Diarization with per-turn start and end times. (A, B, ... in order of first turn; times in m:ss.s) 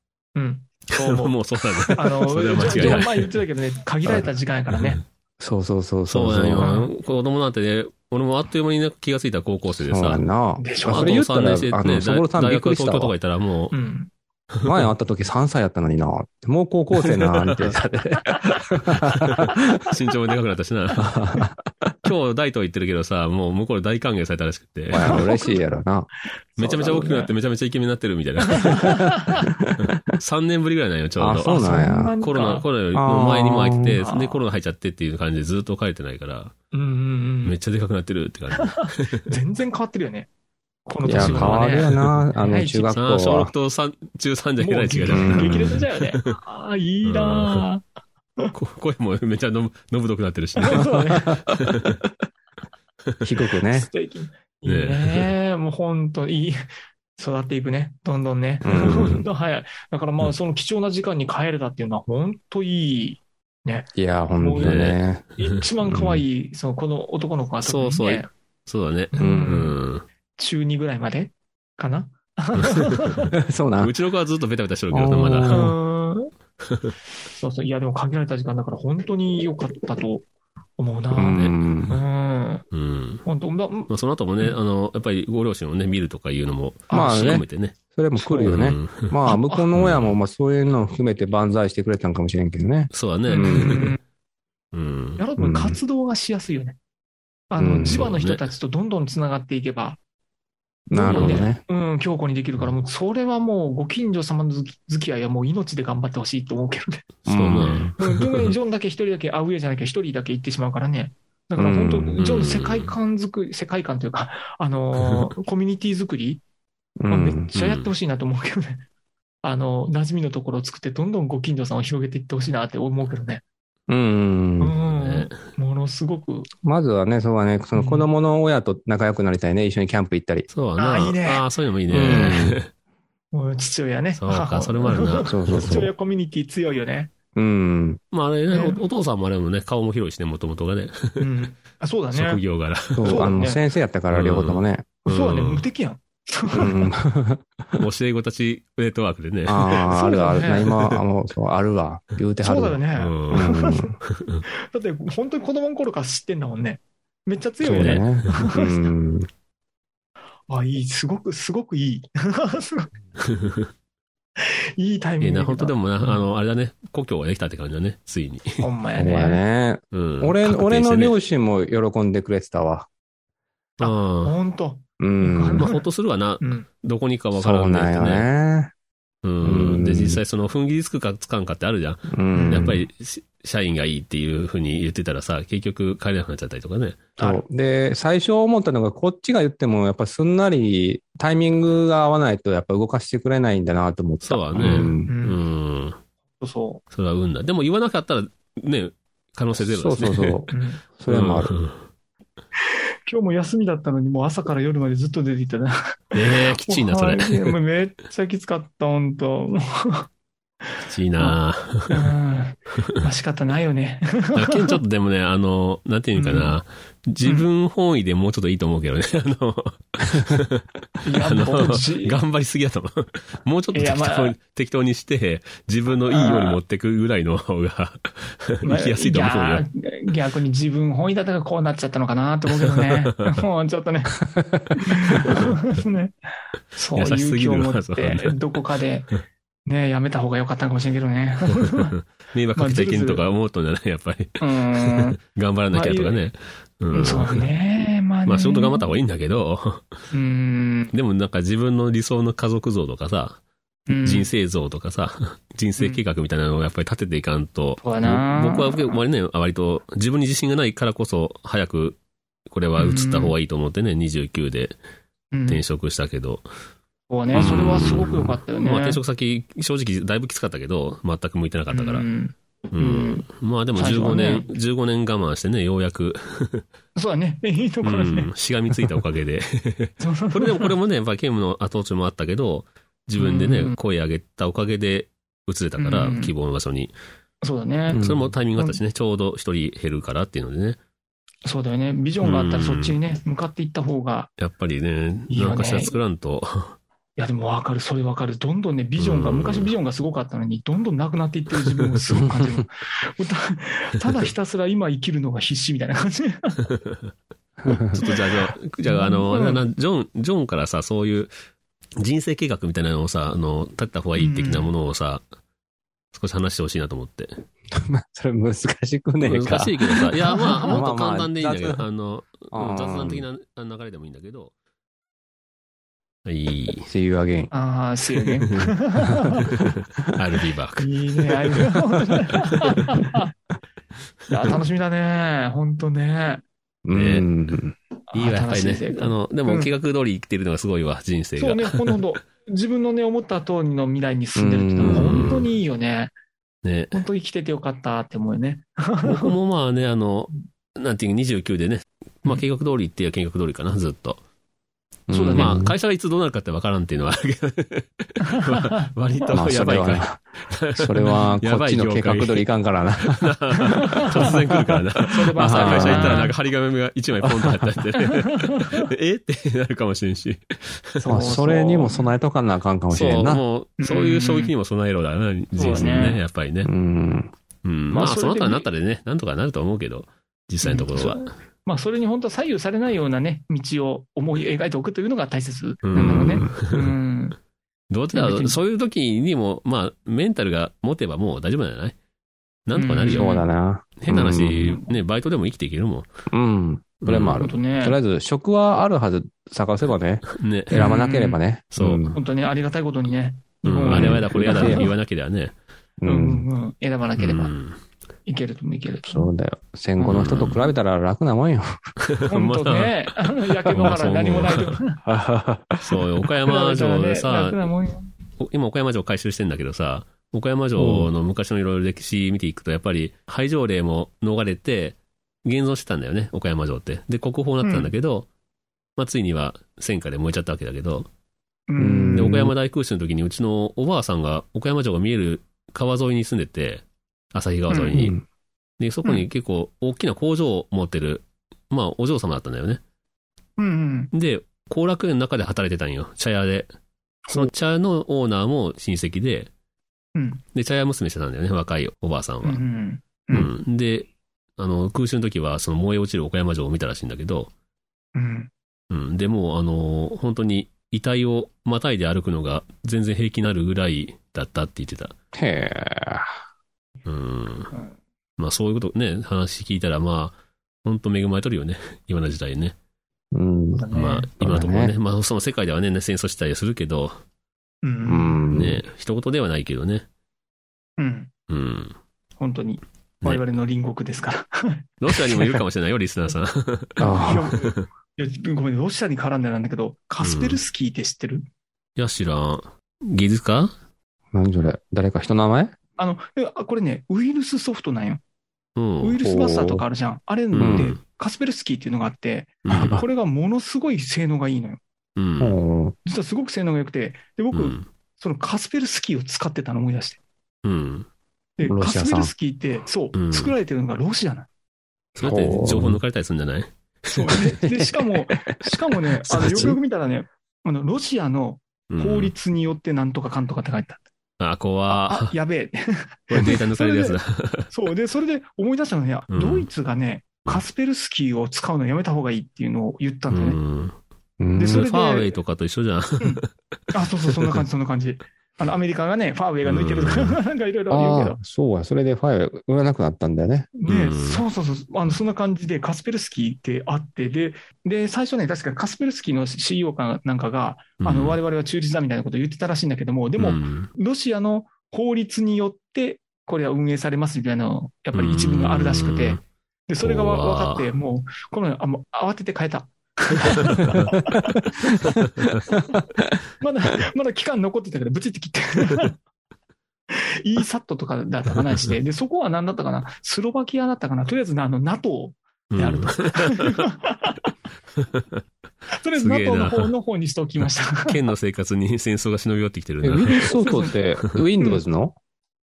0:00.4-0:01.3 A
0:00.9-0:03.3 B
0:02.0-0:05.0 A
0:02.7-0:03.0 C
0:04.7-0:05.0 B
0:05.4-0:06.7 C
0:06.1-0:10.2 B
0:06.6-0:06.9 A
0:09.8-0:13.1 C
0:10.6-0:11.1 A
0:10.8-0:13.8 B
0:13.7-0:14.1 A
0:14.6-0:19.6 C
0:17.0-0:17.8 B
0:19.0-0:21.1 B
0:21.0-0:22.0 C
0:22.0-0:25.3 B
0:24.9-0:26.1 C
0:25.0-0:25.6 A
0:26.6-0:27.3 A
0:26.6-0:29.0 B
0:28.5-0:29.4 A
0:28.9-0:29.8 C
0:29.9-0:36.5 B
0:31.2-0:32.1 C
0:31.4-0:32.6 A
0:32.9-0:34.0 C
0:34.0-0:34.4 A
0:36.7-0:37.6 A
0:37.4-0:39.2 B
0:38.6-0:40.3 A
0:40.9-0:42.9 A
0:41.0-0:43.5 C
0:41.1-0:42.0 B
0:42.8-0:46.4 B
0:44.6-0:47.8 A
0:45.1-0:45.8 C
0:47.0-0:47.7 B
0:48.5-0:52.0 B
0:50.6-0:51.4 A
0:53.2-0:53.9 C
0:53.7-0:56.6 A
0:54.6-0:55.3 B
0:57.2-1:03.9 A
0:58.6-0:59.2 C
0:58.8-0:59.2 B
1:04.0-1:05.2 C
1:04.4-1:08.3 A
1:04.6-1:06.2 B
1:05.9-1:06.2 C
1:07.6-1:10.0 B
1:09.1-1:09.8 A
1:09.2-1:09.7 C
1:10.4-1:13.3 A
1:12.6-1:13.2 B
1:13.3-1:13.9 C
1:13.8-1:15.7 B
1:14.9-1:15.8 C
1:15.5-1:16.3 A
1:16.7-1:16.9 B
1:17.3-1:20.2 A
1:20.8-1:22.6 A
1:21.1-1:22.0 C
1:22.7-1:23.2 B
1:23.2-1:23.9 A
1:23.9-1:29.2 B
1:26.9-1:27.4 A
1:26.9-1:33.9 C
1:29.3-1:29.7 A
1:29.7-1:30.2 B
1:32.9-1:34.0 B
1:33.3-1:34.0 A
1:34.7-1:35.2 B
1:35.2-1:36.8 A
1:35.4-1:35.8 C
1:37.5-1:40.0 A
1:37.6-1:38.1 C
1:37.8-1:38.4 B
1:40.9-1:41.6 C
1:40.9-1:47.1 A
1:41.1-1:41.5 B
1:47.3-1:48.0 C
1:47.3-1:48.5 B
1:48.0-1:56.4 A
1:51.6-1:52.2 C
1:52.2-1:53.0 B
1:57.0-1:57.5 C
1:57.1-1:58.8 A
1:57.5-1:57.9 B
1:59.4-2:03.4 A
2:03.9-2:04.8 C
2:04.6-2:06.5 A
2:04.8-2:05.4 B
2:06.6-2:10.5 C
2:07.8-2:08.1 A
2:10.5-2:12.7 B
2:10.8-2:11.4 A
2:11.9-2:12.6 C
2:13.3-2:17.1 A
2:14.2-2:15.7 B
2:15.3-2:15.9 C
2:17.4-2:18.0 C
2:18.1-2:21.3 B
2:18.5-2:18.8 A
2:21.2-2:22.4 A
2:22.1-2:23.3 B
2:22.9-2:24.9 C
2:23.0-2:23.6 A
2:24.1-2:25.7 B
2:25.0-2:26.9 A
2:26.5-2:27.8 C
2:27.8-2:30.0 B
2:29.5-2:34.0 C
2:29.9-2:30.7 A
2:32.4-2:34.0 A
2:32.9-2:33.5 B
2:34.0-2:34.4 B
2:34.7-2:38.9 A
2:37.6-2:39.3 C
2:37.7-2:38.1 B
2:40.5-2:42.9 A
2:43.2-2:43.7 B
2:44.4-2:46.2 A
2:45.2-2:48.7 B
2:48.6-2:49.4 A
2:49.0-2:52.9 C
2:49.9-2:51.2 B
2:53.8-2:54.4 B
2:53.8-2:55.8 A
2:55.0-2:55.7 C
2:55.6-2:58.3 B
2:57.4-2:58.7 C
2:59.2-3:07.1 B
2:59.4-3:00.2 C
3:02.1-3:02.8 C
3:02.4-3:02.8 A
3:07.2-3:15.1 C
3:14.2-3:16.0 B
3:14.6-3:15.4 A
3:16.4-3:16.8 A
3:16.9-3:20.4 B
3:19.6-3:21.5 C
3:20.5-3:20.8 A
3:21.1-3:21.8 B
3:23.1-3:30.1 A
3:26.1-3:27.6 B
3:30.8-3:32.1 B
3:31.9-3:34.8 A
3:34.4-3:49.6 B
3:36.2-3:36.6 A
3:41.0-3:42.2 A
3:43.7-3:44.3 A
3:46.1-3:46.6 A
3:48.6-3:54.2 A
3:52.6-3:52.8 B
3:54.3-3:54.8 C
3:54.8-3:56.2 A
3:56.8-3:59.1 A
3:57.0-3:58.4 B
3:59.7-4:01.9 A
4:01.4-4:07.5 B
4:02.6-4:03.2 A
4:04.4-4:05.2 A
4:05.7-4:06.2 A
4:06.9-4:09.0 A
4:08.3-4:09.9 B
4:10.1-4:10.9 A
4:10.9-4:13.4 B
4:13.9-4:14.3 A
4:14.0-4:22.0 B
4:17.8-4:19.0 A
4:22.5-4:24.8 B
4:22.8-4:23.3 A
4:25.3-4:25.6 A
4:25.5-4:26.4 B
4:27.1-4:29.0 A
4:27.3-4:28.4 C
4:27.3-4:32.1 B
4:31.7-4:34.5 A
4:32.7-4:36.6 B
4:37.0-4:38.3 A
4:37.8-4:46.9 B
4:40.0-4:40.7 A
4:43.2-4:43.8 A
4:45.8-4:46.3 A
4:47.4-4:48.8 A
4:47.9-4:48.3 C
4:47.9-4:50.8 B
4:51.4-4:54.3 A
4:52.2-4:53.0 B
4:54.4-4:56.8 B
4:55.3-4:55.9 A
4:57.2-5:06.6 A
4:59.0-4:59.7 B
5:07.6-5:08.0 C
5:07.7-5:11.3 B
5:08.8-5:09.6 A
5:12.0-5:15.2 B
5:14.2-5:14.7 A
5:16.1-5:17.3 B
5:17.7-5:19.8 C
5:19.2-5:24.5 B
5:20.3-5:20.8 A
5:20.7-5:21.8 C
5:22.5-5:23.3 C
5:26.2-5:26.9 B
5:26.9-5:27.5 C
5:27.5-5:29.5 A
5:28.4-5:28.7 B
5:29.5-5:31.8 B
5:30.8-5:33.3 A
5:32.5-5:32.8 B
5:34.3-5:36.4 A
5:36.8-5:37.8 C
5:36.9-5:37.3 B
5:38.1-5:39.7 A
5:38.1-5:42.0 B
5:41.4-5:46.1 A
5:44.4-5:45.4 C
5:44.8-5:45.5 B
5:46.6-5:47.0 B
5:46.9-5:49.4 A
5:49.0-5:54.2 B
5:55.1-5:55.8 C
5:55.1-5:55.7 A
5:55.3-6:02.5 B
5:58.4-5:58.7 A
5:59.3-6:00.2 C
6:00.8-6:04.8 C
6:01.0-6:01.4 A
6:03.0-6:11.2 B
6:03.7-6:04.3 A
6:05.1-6:06.3 A
6:05.4-6:06.3 C
6:07.2-6:07.7 C
6:08.1-6:08.8 A
6:11.0-6:12.1 A
6:11.1-6:13.4 C
6:12.9-6:16.7 B
6:13.8-6:14.5 A
6:15.6-6:16.2 A
6:16.6-6:17.3 C
6:17.6-6:21.3 B
6:17.9-6:18.7 A
6:20.6-6:27.4 A
6:25.8-6:27.0 B
6:26.0-6:26.6 C
6:27.9-6:32.0 B
6:28.2-6:28.6 A
6:32.7-6:33.5 B
6:32.8-6:33.5 A
6:33.1-6:34.8 C
6:34.0-6:36.1 B
6:36.3-6:42.2 C
6:37.0-6:37.5 B
6:37.4-6:38.0 A
6:40.3-6:40.9 B
6:40.7-6:41.4 A
6:41.7-6:42.0 B
6:42.1-6:44.9 A
6:43.6-6:45.6 B
6:43.9-6:44.9 C
6:46.0-6:46.5 C
6:46.0-6:47.5 A
6:47.2-6:47.8 B
6:48.3-6:49.3 A
6:49.1-6:51.9 C
6:50.1-6:50.7 B
6:52.0-6:54.8 B
6:52.3-6:55.0 A
6:53.7-6:54.0 C
6:55.1-6:56.1 C
6:55.8-6:57.6 B
6:56.4-6:58.1 A
6:58.4-7:08.3 B
7:00.8-7:01.1 C
7:07.6-7:07.9 A
7:09.0-7:11.1 B
7:11.7-7:12.5 A
7:11.8-7:12.5 C
7:12.1-7:18.2 B
7:17.7-7:18.0 A
7:18.0-7:18.2 C
7:18.8-7:22.8 B
7:23.6-7:24.1 A
7:24.1-7:26.7 B
7:27.3-7:29.5 B
7:30.2-7:30.4 A
7:30.5-7:32.6 B
7:32.4-7:33.5 A
7:33.3-7:37.5 B
7:38.2-7:38.5 A
7:38.9-7:45.2 B
7:45.3-7:46.3 C
7:47.1-7:47.7 B
7:48.4-7:52.8 B
7:53.3-7:55.0 C
7:53.7-7:54.3 A
7:53.9-7:57.2 B
7:57.8-7:58.4 A
7:58.1-7:58.8 C
7:58.5-8:00.1 B
8:01.0-8:01.3 A
8:01.5-8:02.0 B
8:02.4-8:05.2 A
8:05.0-8:07.8 B
8:07.0-8:11.5 A
8:07.0-8:07.5 C
8:10.2-8:10.6 B
8:12.0-8:13.7 B
8:14.3-8:15.7 C
8:16.0-8:18.2 A
8:18.8-8:19.2 B
8:19.0-8:24.8 A
8:19.2-8:19.9 C
8:20.5-8:21.0 B
8:20.6-8:20.9 C
8:22.6-8:23.0 B
8:22.7-8:23.1 C
8:25.2-8:25.6 B
8:25.4-8:26.0 C
8:26.0-8:30.2 A
8:27.5-8:27.9 B
8:30.6-8:31.1 B
8:31.6-8:34.5 A
8:31.6-8:32.3 C
8:33.2-8:33.5 B
8:35.2-8:37.4 B
8:35.2-8:36.0 C
8:37.1-8:44.0 A
8:37.3-8:39.8 C
8:39.4-8:39.7 B
8:41.9-8:42.3 B
8:44.4-8:45.3 B
8:44.9-8:47.2 A
8:46.3-8:47.7 B
8:47.7-8:53.6 A
8:49.3-8:49.7 B
8:53.3-8:54.0 B
8:54.4-8:54.9 C
8:54.6-8:55.4 A
8:54.7-8:57.6 B
8:56.9-9:01.4 A
8:59.6-9:00.4 B
9:00.9-9:03.7 C
9:03.8-9:25.8 A
9:03.9-9:04.4 B
9:11.0-9:11.4 B
9:13.4-9:13.9 B
9:18.1-9:19.4 B
9:20.0-9:20.9 B
9:23.5-9:24.2 B
9:26.6-9:29.1 A
9:30.1-9:37.5 A
9:35.7-9:36.8 B
9:38.0-9:38.4 B
9:38.9-9:41.2 A
9:39.2-9:39.9 B
9:41.1-9:43.6 B
9:43.0-9:45.2 C
9:43.4-9:44.0 A